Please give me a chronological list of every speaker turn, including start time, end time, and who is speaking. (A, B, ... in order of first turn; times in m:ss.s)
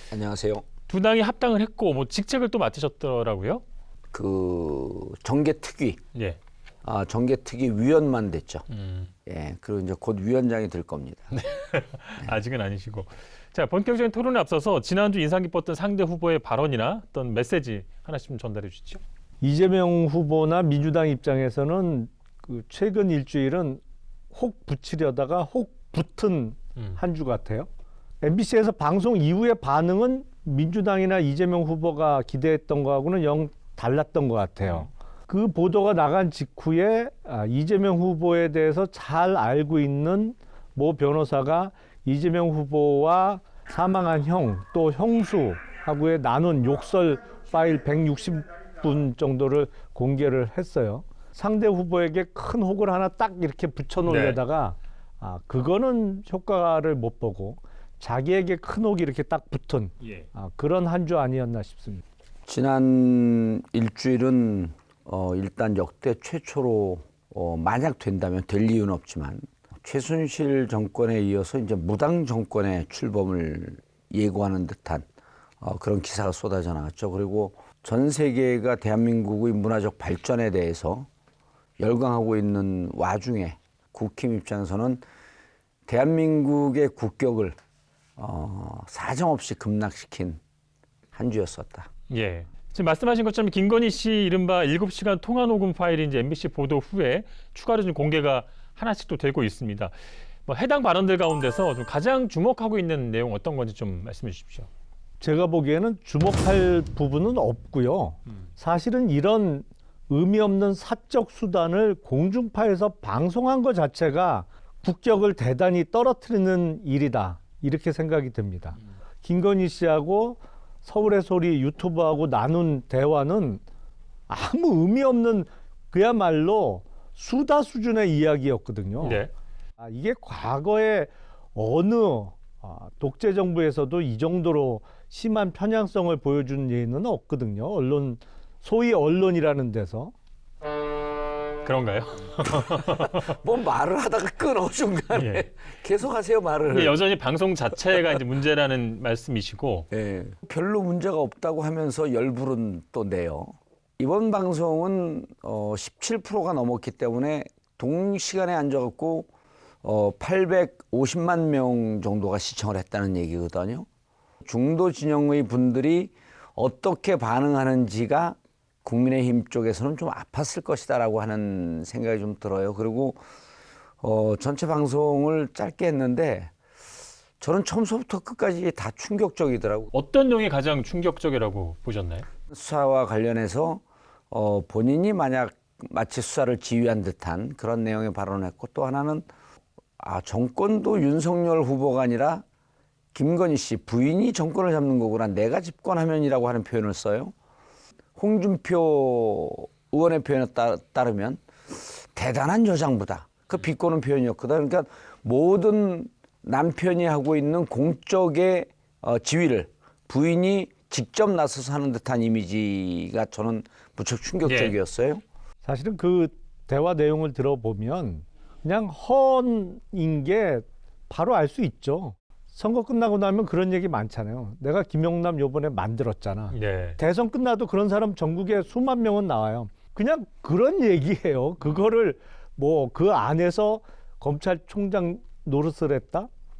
0:00.1-0:00.6 A
0:00.9-0:03.6 B
0:04.1-0:06.0 A
0:06.1-0:06.4 B
0:06.8-0:08.6 A
0:08.7-0:09.1 B
0:09.2-0:11.3 A
0:11.3-0:19.0 B
0:19.4-0:23.8 C
0:24.3-0:27.7 C
0:28.2-1:02.0 C
0:54.1-0:54.4 B
1:02.5-1:15.0 A
1:15.6-1:21.1 A
1:21.8-1:25.0 A
1:25.9-1:27.6 A
1:28.2-1:30.4 A
1:31.1-1:31.9 A
1:32.1-1:39.9 B
1:40.4-1:44.7 B
1:45.2-2:03.6 C
2:04.3-2:09.2 C
2:09.0-2:09.3 B
2:09.8-2:20.1 C
2:21.6-2:23.4 B
2:23.0-2:27.0 A
2:25.1-2:25.4 B
2:26.7-2:29.9 B
2:29.9-2:39.3 A
2:39.8-2:43.8 A
2:44.4-2:53.2 A
2:54.0-2:56.5 A
2:57.4-2:59.9 A
2:59.9-3:02.2 B
3:02.5-3:09.2 A
3:10.0-3:12.4 A
3:13.1-3:17.3 A
3:18.2-3:21.4 A
3:22.2-3:35.2 A
3:34.4-3:34.8 B
3:35.6-3:56.3 C
3:46.5-3:47.0 B